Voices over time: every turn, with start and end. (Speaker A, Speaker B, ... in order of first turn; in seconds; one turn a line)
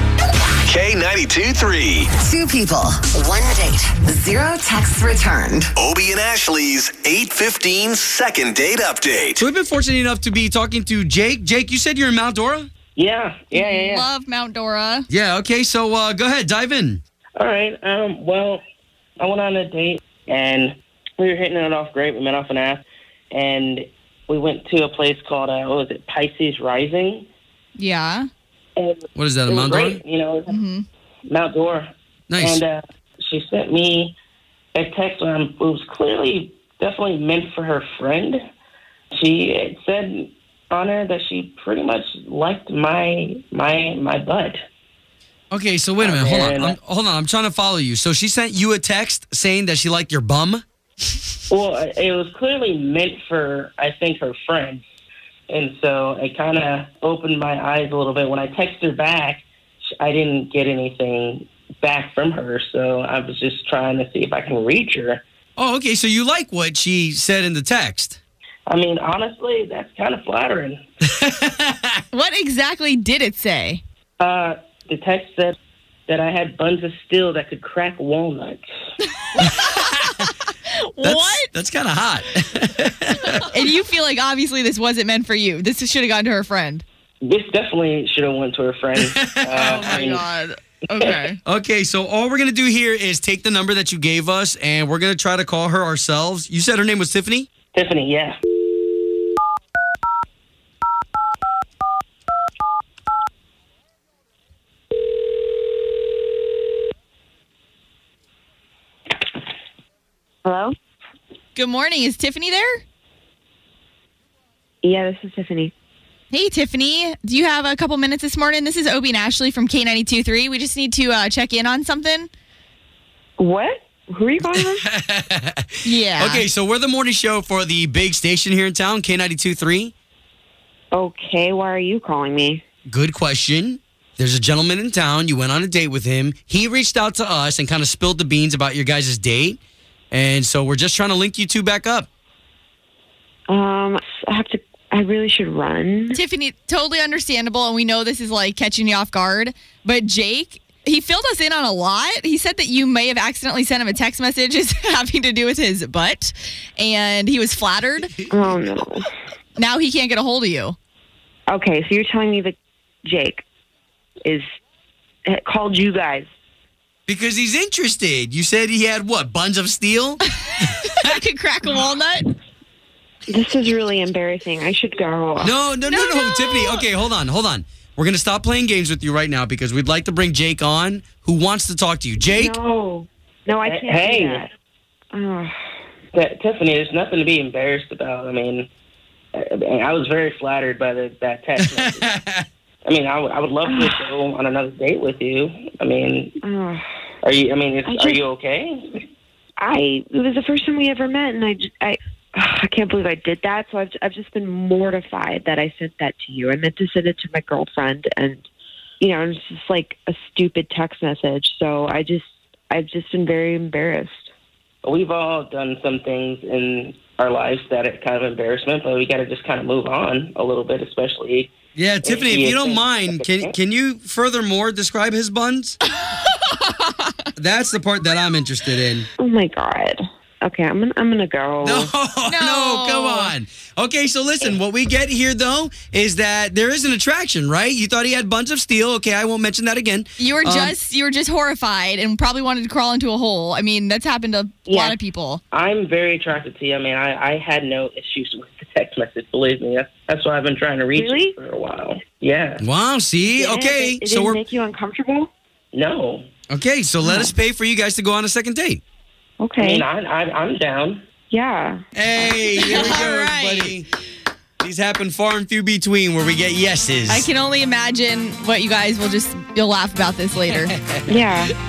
Speaker A: 0.6-2.1
Speaker B: 2.1-5.7
Speaker A: 5.8-9.4
Speaker C: 9.4-12.7
Speaker D: 12.9-14.1
Speaker E: 13.5-15.1
Speaker C: 15.1-17.0
Speaker D: 17.4-18.6
Speaker D: 19.2-27.3
Speaker E: 27.8-28.3
Speaker D: 28.8-30.6
Speaker C: 29.2-30.1
Speaker E: 30.5-30.8
Speaker D: 31.3-34.2
Speaker C: 32.3-32.6
Speaker D: 34.8-38.4
Speaker D: 39.1-44.6
Speaker C: 45.5-50.6
Speaker D: 46.0-46.8
Speaker D: 51.5-54.8
Speaker D: 55.5-65.2
Speaker C: 65.6-68.2
Speaker D: 68.7-70.8
Speaker C: 71.2-72.0
Speaker E: 72.1-73.8
Speaker D: 74.2-75.6
Speaker D: 76.1-78.7
Speaker C: 79.4-80.0
Speaker E: 79.4-81.5
Speaker C: 81.0-83.5
Speaker E: 83.5-86.8
Speaker D: 87.2-90.2
Speaker C: 89.0-90.2
Speaker E: 89.7-91.4
Speaker D: 90.9-91.3
Speaker C: 91.5-97.5
Speaker D: 97.7-98.4
Speaker F: 110.5-110.7
Speaker E: 111.6-112.8
Speaker F: 114.8-115.7
Speaker E: 116.3-122.3
Speaker F: 123.4-124.9
Speaker C: 124.5-129.9
Speaker E: 125.8-126.5
Speaker F: 130.9-132.6
Speaker C: 132.9-139.6
Speaker C: 140.1-142.1
Speaker F: 143.5-146.2
Speaker E: 146.1-158.1
Speaker C: 158.0-158.4
Speaker F: 158.3-159.1
Speaker E: 159.6-160.8
Speaker F: 161.5-163.4
Speaker F: 165.3-166.3
Speaker C: 167.1-170.2
Speaker E: 170.9-172.3
Speaker F: 173.3-175.6
Speaker C: 175.4-182.6
Speaker E: 175.9-176.8
Speaker F: 182.3-184.5
Speaker D: 183.6-184.4
Speaker F: 185.1-185.6
Speaker D: 186.1-188.7
Speaker D: 189.3-192.1
Speaker C: 191.6-192.4
Speaker D: 192.8-196.3
Speaker F: 193.6-194.1
Speaker F: 196.4-196.8
Speaker D: 197.2-199.1
Speaker F: 197.8-198.2
Speaker F: 199.6-208.5
Speaker F: 209.0-214.3
Speaker D: 214.8-223.6
Speaker C: 221.8-225.8
Speaker E: 226.2-227.1
Speaker C: 227.4-229.1
Speaker F: 229.2-231.9
Speaker C: 231.6-240.8
Speaker E: 232.3-233.3
Speaker E: 240.2-245.4
Speaker F: 244.7-245.0
Speaker D: 245.5-252.6
Speaker F: 250.9-251.4
Speaker C: 252.6-254.4
Speaker F: 253.2-255.3
Speaker D: 255.7-256.3
Speaker C: 256.5-258.8
Speaker F: 257.0-257.4
Speaker F: 259.4-259.9
Speaker D: 259.6-261.1
Speaker F: 261.3-261.8
Speaker C: 261.9-263.9
Speaker E: 262.5-263.8
Speaker F: 262.6-263.0
Speaker C: 264.6-267.3
Speaker E: 267.1-270.7
Speaker C: 270.5-271.5
Speaker F: 271.1-271.5